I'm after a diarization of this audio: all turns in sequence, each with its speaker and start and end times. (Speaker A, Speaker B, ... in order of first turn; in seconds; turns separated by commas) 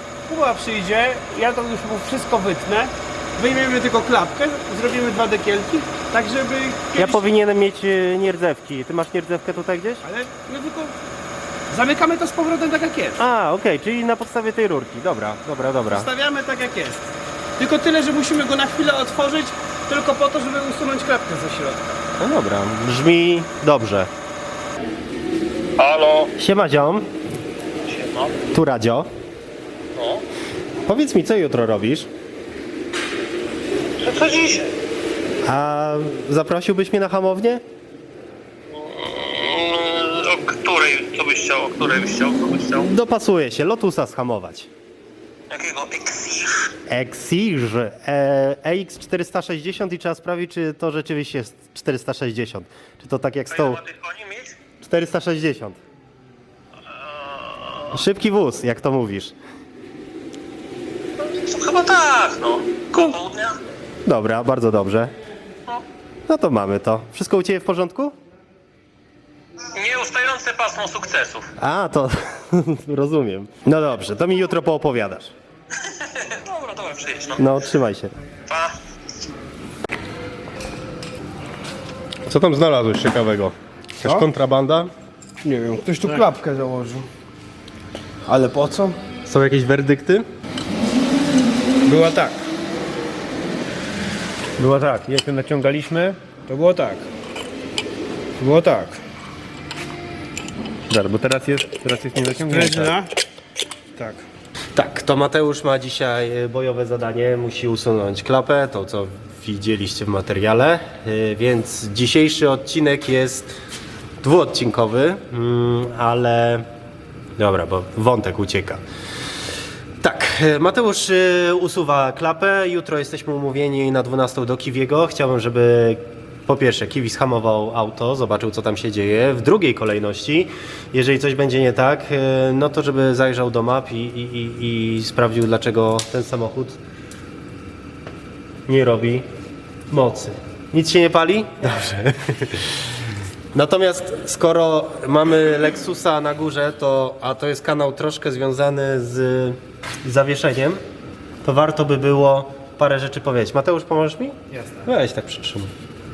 Speaker A: 0.3-7.2, Speaker B: 6.9-10.0, Speaker A: 10.0-11.0, Speaker A: 11.7-13.2, Speaker B: 13.2-16.1, Speaker A: 15.9-22.0, Speaker B: 22.2-24.1, Speaker C: 25.8-26.3, Speaker B: 26.4-27.1, Speaker C: 27.8-28.4, Speaker B: 28.5-29.1, Speaker C: 29.9-30.2, Speaker B: 30.9-32.1, Speaker C: 34.0-34.7, Speaker B: 35.4-37.6, Speaker C: 38.7-42.9, Speaker B: 42.8-44.7, Speaker C: 45.5-46.7, Speaker B: 46.9-53.8, Speaker C: 53.5-54.6, Speaker B: 54.8-55.8, Speaker C: 56.8-58.0, Speaker B: 57.9-59.3, Speaker C: 61.2-63.6, Speaker B: 64.0-65.1, Speaker B: 66.3-68.1, Speaker C: 69.7-71.5, Speaker B: 71.6-75.3, Speaker C: 75.8-77.5, Speaker B: 77.4-78.1, Speaker C: 78.5-78.8, Speaker B: 82.2-84.9, Speaker A: 85.4-87.1, Speaker A: 88.3-89.0, Speaker B: 89.2-90.3, Speaker A: 91.8-92.5, Speaker D: 94.6-96.2, Speaker A: 96.5-97.1, Speaker A: 98.4-99.0, Speaker D: 100.9-103.0, Speaker A: 102.5-103.1, Speaker A: 104.0-104.2, Speaker B: 104.7-113.5, Speaker B: 114.2-116.7, Speaker B: 117.4-118.8, Speaker B: 120.0-136.8, Speaker B: 138.7-139.3, Speaker B: 139.9-142.8, Speaker B: 143.5-150.8, Speaker B: 151.4-155.7, Speaker A: 154.5-154.8